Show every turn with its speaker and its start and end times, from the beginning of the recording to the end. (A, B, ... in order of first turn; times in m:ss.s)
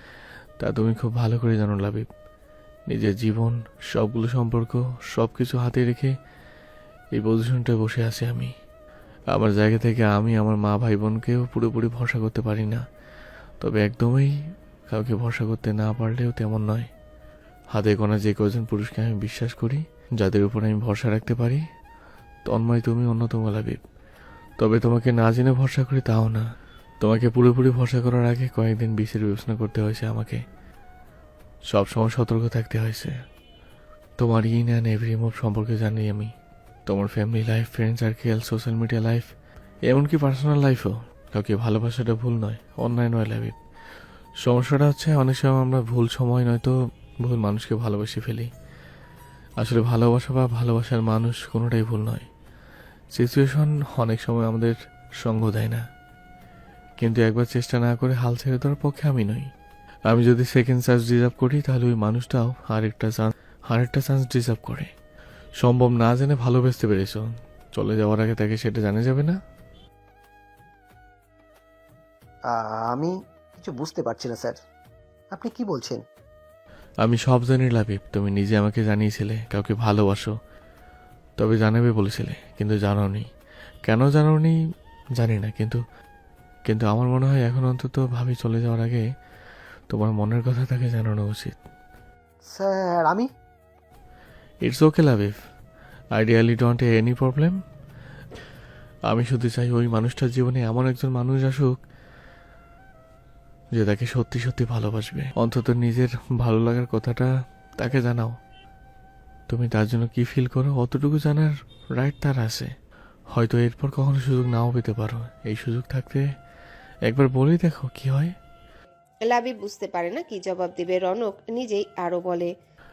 0:00.6-0:02.1 A
0:02.9-0:06.1 A
0:07.2-0:08.5 A
0:09.3-0:12.8 A
0:13.6-0:14.3 A
0:14.9-0:16.9 A
0:17.7-0:21.6 A
0:22.5-0:23.8 A
0:24.6-0:26.4 A
0:27.0-0:30.4 A
0:31.7-0:33.1 A
0:34.2-0:36.3 A
0:36.9-0:39.3 A
0:39.9-0:43.6 A
0:44.4-0:46.7 A
0:47.2-0:48.5 A
0:49.6-0:52.3 A
0:53.2-0:55.8 A
0:57.0-0:59.5 A
1:00.1-1:04.9 A
1:05.6-1:07.2 A
1:07.8-1:09.4 A
1:12.5-1:14.6 B
1:15.3-1:16.0 B
1:17.0-1:20.3 A
1:21.4-1:23.3 A
1:23.9-1:24.5 A
1:25.2-1:25.8 A
1:26.7-1:29.0 A
1:29.9-1:31.5 A
1:32.5-1:33.3 B
1:34.6-1:35.4 A
1:36.2-1:37.6 A
1:39.1-1:41.7 A
1:43.8-1:48.4 A
1:49.5-1:52.7 A
1:53.3-1:56.2 A
1:57.1-1:58.3 A
1:59.3-2:02.5 C